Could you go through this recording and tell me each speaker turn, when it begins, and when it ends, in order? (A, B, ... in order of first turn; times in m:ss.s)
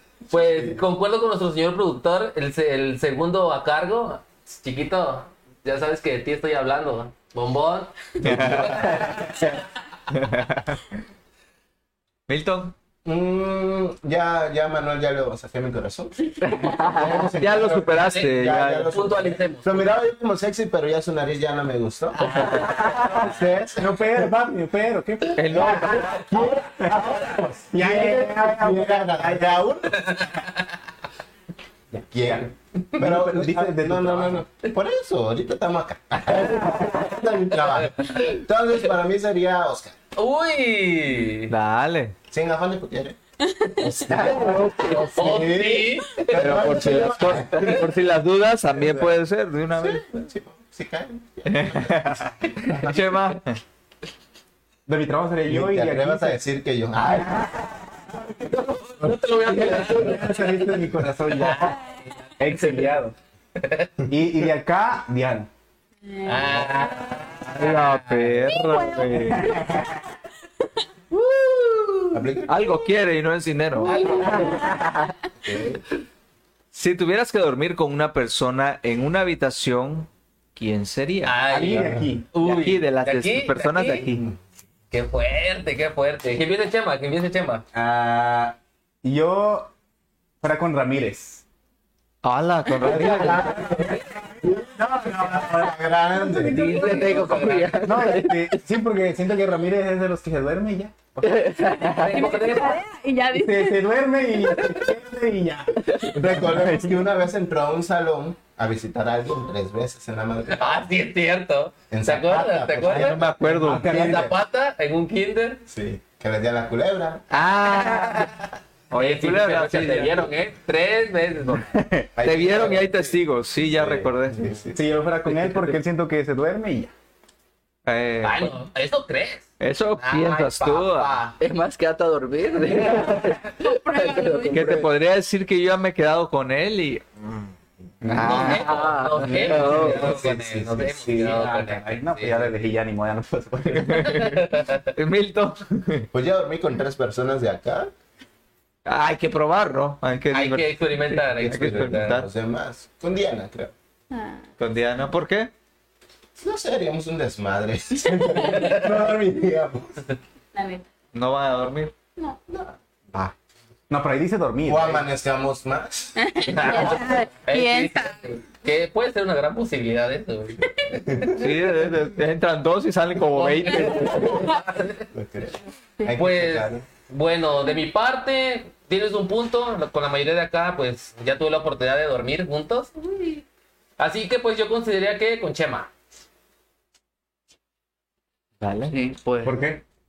0:00.3-0:09.6 A
0:08.2-0:09.1 B
0:08.3-0:08.6 C
0:08.6-0:09.6 D
0:10.1-0:10.9 B
0:12.3-0:12.8 B
0:13.0-0:24.0 C
0:16.4-0:17.2 E
0:17.4-0:19.0 B
0:17.9-0:20.0 A
0:22.2-0:23.1 A
0:22.3-0:26.2 D
0:22.5-0:22.8 E
0:25.4-0:26.6 B
0:25.5-0:30.4 C
0:26.8-0:29.7 D
0:30.1-0:30.4 A
0:31.9-0:32.4 D
0:32.0-0:40.0 C
0:33.0-0:34.4 D
0:40.2-0:41.5 A
0:41.5-0:42.2 B
0:42.3-0:43.2 C
0:43.5-0:44.0 F
0:43.8-0:47.9 C
0:44.1-0:45.2 E
0:44.9-0:46.9 A
0:46.3-0:50.0 B
0:48.8-0:49.1 C
0:49.8-0:53.0 C
0:51.5-0:53.6 B
0:54.9-0:56.4 D
0:55.5-0:57.5 C
0:57.0-0:58.0 D
0:58.6-1:00.5 A
0:59.5-1:01.8 D
1:01.3-1:01.8 A
1:02.4-1:03.2 D
1:03.6-1:03.9 A
1:04.1-1:05.5 D
1:06.1-1:07.2 F
1:06.3-1:08.4 A
1:07.5-1:09.6 B
1:08.6-1:10.1 F
1:11.1-1:12.1 A
1:12.1-1:12.6 C
1:12.5-1:14.2 B
1:13.8-1:14.7 A
1:14.2-1:15.1 E
1:15.4-1:15.8 C
1:16.7-1:21.6 B
1:21.2-1:24.0 A
1:21.5-1:22.3 D
1:22.4-1:24.3 B
1:24.9-1:27.6 A
1:27.7-1:29.7 D
1:30.4-1:31.4 D
1:32.2-1:33.5 B
1:32.8-1:36.7 C
1:32.9-1:41.0 D
1:33.8-1:34.2 A
1:36.5-1:38.6 E
1:36.8-1:37.8 A
1:41.2-1:42.6 E
1:42.0-1:42.8 A
1:42.1-1:44.8 F
1:43.3-1:47.1 D
1:45.8-1:46.2 E
1:46.1-1:50.8 C
1:50.6-1:53.2 A
1:51.9-1:53.4 C
1:52.8-1:54.1 B
1:53.5-1:54.3 D
1:53.8-1:55.6 A
1:55.7-1:57.2 C
1:57.3-1:58.3 B
1:58.9-2:00.3 B
1:58.9-2:01.7 A
2:01.6-2:02.1 D
2:02.2-2:03.2 C
2:02.2-2:04.4 B
2:03.7-2:04.8 C
2:04.7-2:06.9 D
2:05.3-2:05.8 B
2:07.9-2:08.6 B
2:08.2-2:11.4 A
2:09.6-2:11.2 B
2:11.4-2:14.9 E
2:13.6-2:14.8 F
2:14.5-2:17.5 B
2:18.0-2:20.3 D
2:18.1-2:18.6 B
2:18.1-2:20.2 E
2:18.3-2:22.5 A
2:19.3-2:20.9 C
2:20.8-2:24.2 D
2:23.7-2:26.1 B
2:24.2-2:24.9 A
2:26.1-2:27.9 C
2:28.9-2:32.3 B
2:30.3-2:32.2 A
2:31.4-2:33.7 C
2:34.1-2:34.4 F
2:34.6-2:35.5 B
2:36.4-2:40.2 C
2:38.1-2:38.7 F
2:38.5-2:38.8 A
2:40.5-2:40.9 F
2:41.1-2:41.9 B
2:42.5-2:43.3 C
2:43.9-2:45.1 D
2:44.6-2:46.7 C
2:46.2-2:48.2 F
2:46.5-2:50.6 A
2:50.8-2:51.5 C
2:51.4-2:54.4 B
2:53.3-2:55.1 A
2:55.1-2:56.9 C
2:56.2-3:03.1 A
3:04.0-3:05.9 A
3:08.6-3:09.0 B
3:08.9-3:09.6 E
3:09.4-3:09.8 D